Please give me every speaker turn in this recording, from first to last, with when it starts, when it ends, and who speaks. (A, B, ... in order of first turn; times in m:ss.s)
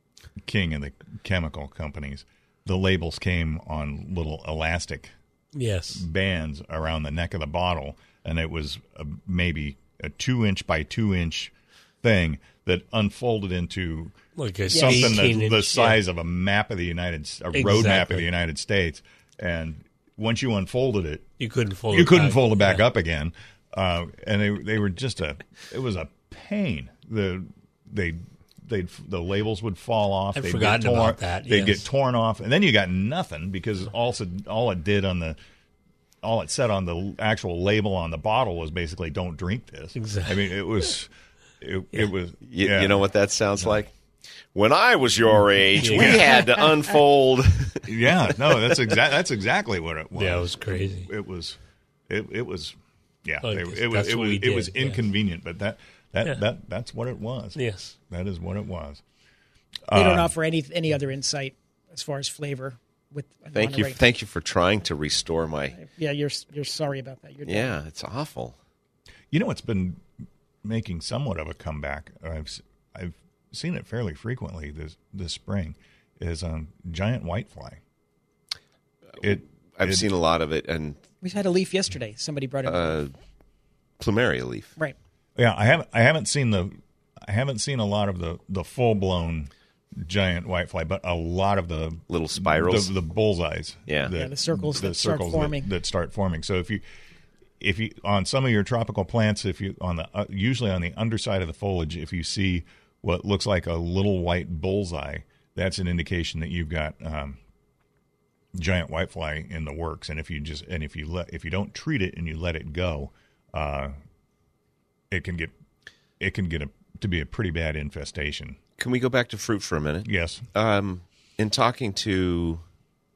0:00.4-0:05.1 A
0:05.6-0:06.0 B
0:05.9-0:21.3 A
0:14.4-0:16.0 B
0:14.7-0:15.0 C
0:17.5-0:18.3 B
0:21.4-0:22.8 B
0:21.9-0:35.4 A
0:30.3-0:31.9 B
0:36.2-0:41.1 A
0:40.0-0:40.5 B
0:41.6-0:43.0 A
0:42.4-0:43.9 D
0:44.5-0:48.8 D
0:45.8-0:46.2 B
0:45.9-0:46.2 A
0:47.9-0:51.6 A
0:50.2-0:51.1 B
0:52.1-0:59.0 A
0:53.4-0:55.0 B
0:57.6-0:58.0 B
0:59.9-1:00.3 A
0:59.9-1:04.0 C
1:03.5-1:05.8 D
1:05.7-1:07.8 C
1:07.4-1:08.6 D
1:09.3-1:10.0 A
1:10.6-1:17.8 A
1:19.2-1:21.0 D
1:19.2-1:20.1 A
1:21.2-1:23.0 C
1:22.6-1:23.1 D
1:24.0-1:24.8 D
1:25.4-1:36.8 A
1:32.1-1:32.9 D
1:33.9-1:34.1 D
1:34.1-1:35.7 C
1:37.6-1:47.4 A
1:48.5-1:54.0 A
1:55.1-1:55.5 A
1:56.2-1:58.6 A
1:58.8-2:02.6 D
2:00.0-2:00.5 A